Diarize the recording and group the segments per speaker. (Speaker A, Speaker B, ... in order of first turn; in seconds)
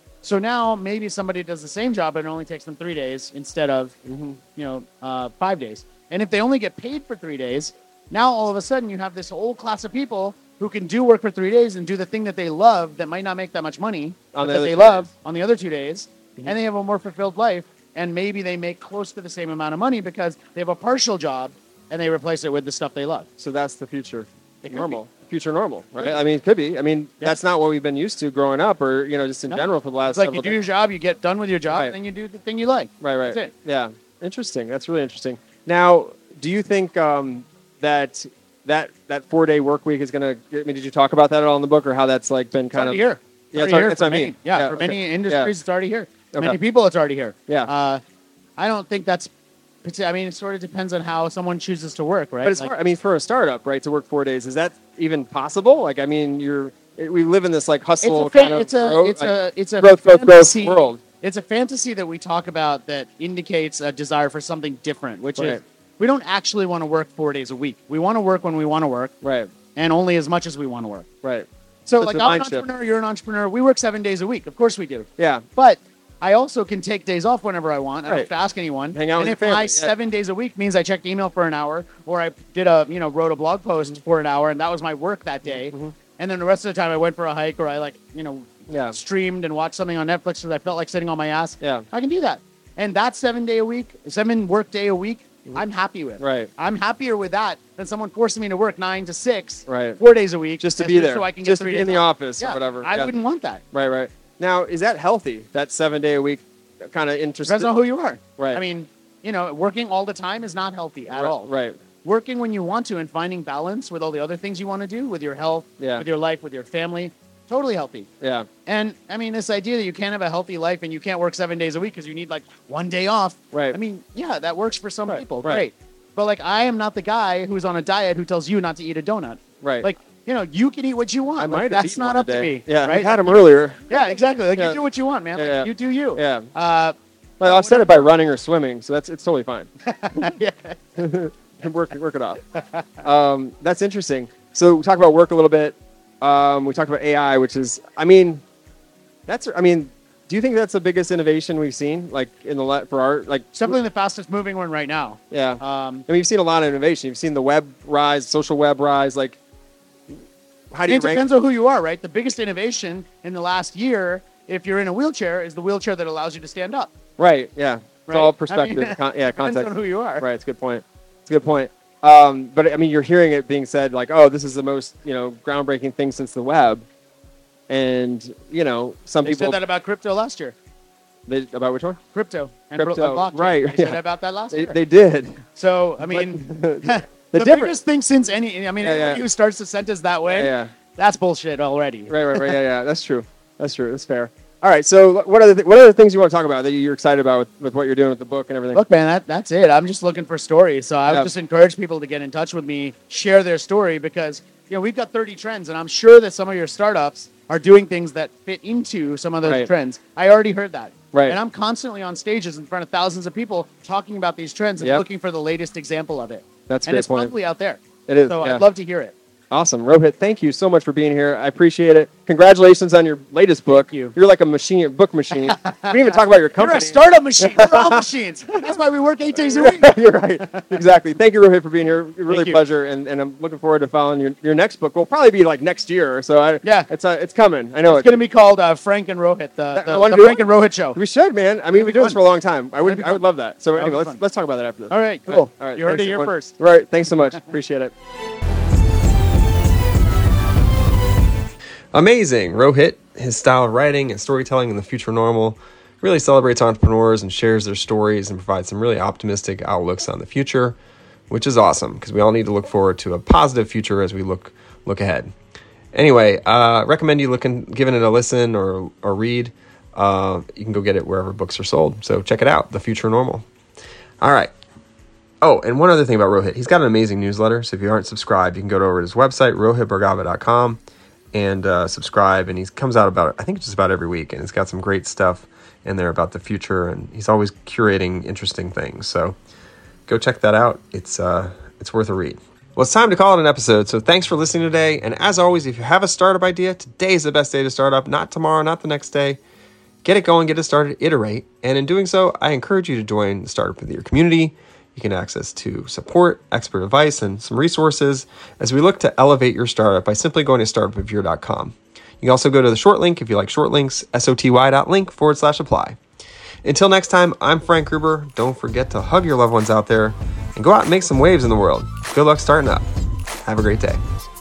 Speaker A: 0.2-4.0, 4.6-23.3, 24.6-25.0, 29.5-33.5, 42.7-48.0, 48.6-49.3, 49.8-52.7, 58.0-69.1, 69.8-71.1, 71.9-103.6, 107.4-111.5, 112.0-118.1, 118.7-133.3, 133.9-138.1, 139.8-140.8, 142.6-142.9, 153.5-156.1, 160.9-166.9, 168.1-170.2, 179.2-180.6, 182.1-184.8, 185.6-192.5, 198.7-219.1, 223.7-224.1, 225.4-226.0, 226.6-230.7, 232.3-232.6, 236.6-236.9, 237.9-241.0, 241.7-242.2, 242.8-243.2, 243.8-244.2, 244.9-246.6
Speaker B: 4.1-4.4, 14.3-15.1, 23.4-30.6, 33.0-43.0, 43.5-45.5, 52.4-61.0, 69.2-69.5, 72.0-72.6, 75.2-75.4, 78.9-79.9, 85.5-85.9, 88.7-89.0, 96.2-96.5, 99.7-100.0, 100.6-103.1, 103.7-107.7, 111.1-111.8, 115.8-116.0, 118.2-118.5, 125.1-125.6, 129.6-129.9, 131.4-134.0, 135.4-136.5, 137.4-139.7, 141.0-142.4, 143.0-148.4, 149.3-153.8, 155.3-159.4, 160.7-161.2, 167.2-176.8, 177.7-179.6, 181.3-182.0, 182.8-184.0, 184.5-185.4, 186.1-187.7, 188.8-189.2, 190.3-190.7, 192.1-198.8, 216.7-217.3, 218.1-218.6, 219.5-228.1, 229.4-238.2, 239.8-240.4, 240.9-247.9
Speaker C: 251.9-260.8, 261.3-265.3, 265.9-273.4, 274.2-274.5, 275.4-280.8, 281.3-289.4, 290.1-299.4, 300.0-316.0, 316.6-322.9, 323.4-324.0